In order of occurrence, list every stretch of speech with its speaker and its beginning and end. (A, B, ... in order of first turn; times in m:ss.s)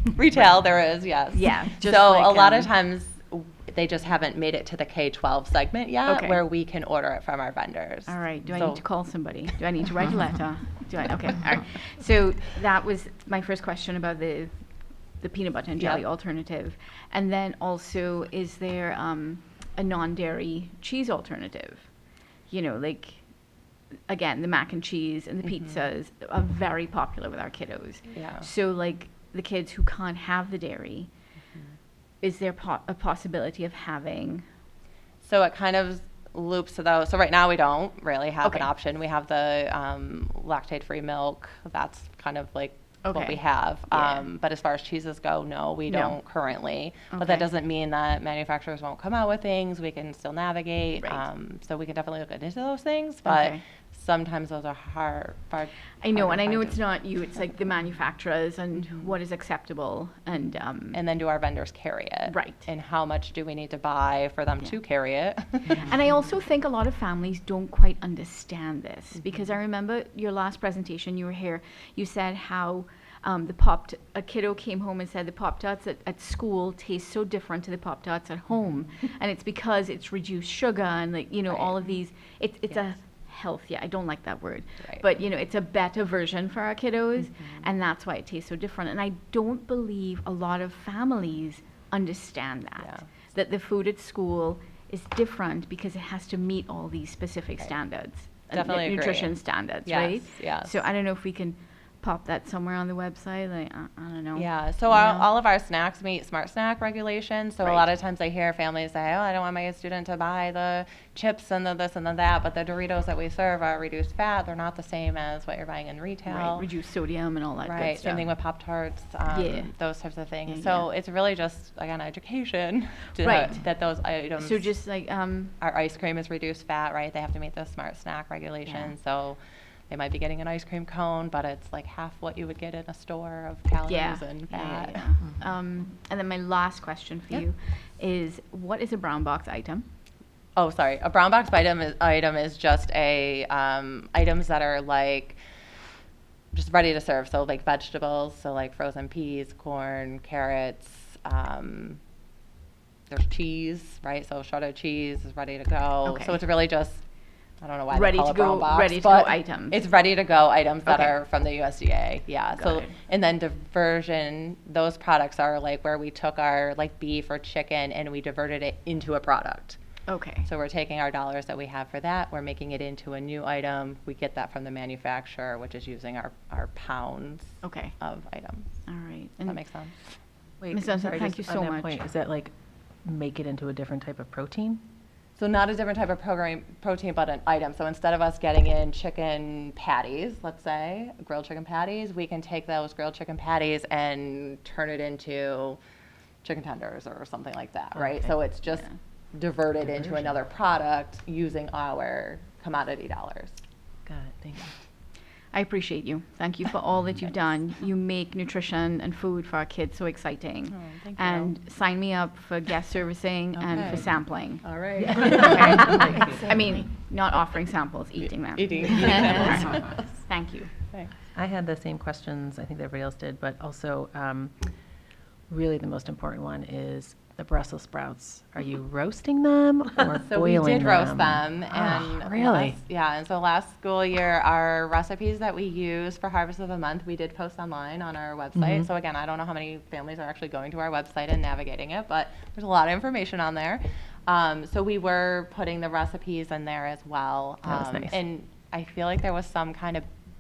0:00.1-0:08.9 A
0:01.3-0:02.7 B
0:06.1-0:06.4 B
0:08.1-0:21.9 B
0:22.5-0:23.3 B
0:24.1-0:31.1 B
0:25.4-0:25.8 A
0:28.1-0:28.5 A
0:32.2-0:34.4 B
0:35.2-0:56.8 A
0:43.0-0:44.2 B
0:45.9-0:46.2 B
0:47.1-0:47.5 B
0:53.2-0:53.6 B
0:56.0-1:01.0 B
0:58.8-0:59.1 A
1:00.9-1:05.9 A
1:02.3-1:02.7 B
1:05.8-1:45.3 B
1:21.5-1:21.8 A
1:27.4-1:27.6 A
1:38.5-1:40.8 A
1:44.4-1:56.7 A
1:56.3-1:58.3 B
1:57.6-2:04.7 A
1:59.3-1:59.7 B
2:00.5-2:00.8 B
2:03.2-2:03.6 B
2:04.4-2:05.6 B
2:05.6-2:15.1 A
2:08.7-2:08.9 B
2:13.9-2:19.9 B
2:20.6-2:25.4 A
2:26.5-2:32.0 A
2:33.1-2:37.0 A
2:36.1-2:36.4 B
2:37.6-2:49.8 A
2:37.9-2:39.8 B
2:40.9-2:41.1 B
2:42.5-2:43.0 B
2:50.1-2:50.5 B
2:50.4-2:58.7 A
2:57.6-2:58.0 B
2:58.9-2:59.6 B
2:59.5-2:59.9 A
3:00.6-3:02.5 C
3:00.7-3:02.0 B
3:03.0-3:04.8 C
3:05.4-3:15.8 A
3:16.4-3:23.6 A
3:18.0-3:18.2 C
3:19.9-3:20.3 C
3:24.1-3:24.8 C
3:25.5-3:40.7 B
3:30.7-3:31.5 A
3:33.7-3:34.1 A
3:34.6-3:36.3 A
3:35.1-3:36.0 C
3:38.5-3:40.0 A
3:41.4-3:44.6 C
3:45.5-3:52.8 C
3:50.1-4:10.1 A
3:58.6-3:58.8 C
4:07.7-4:08.2 C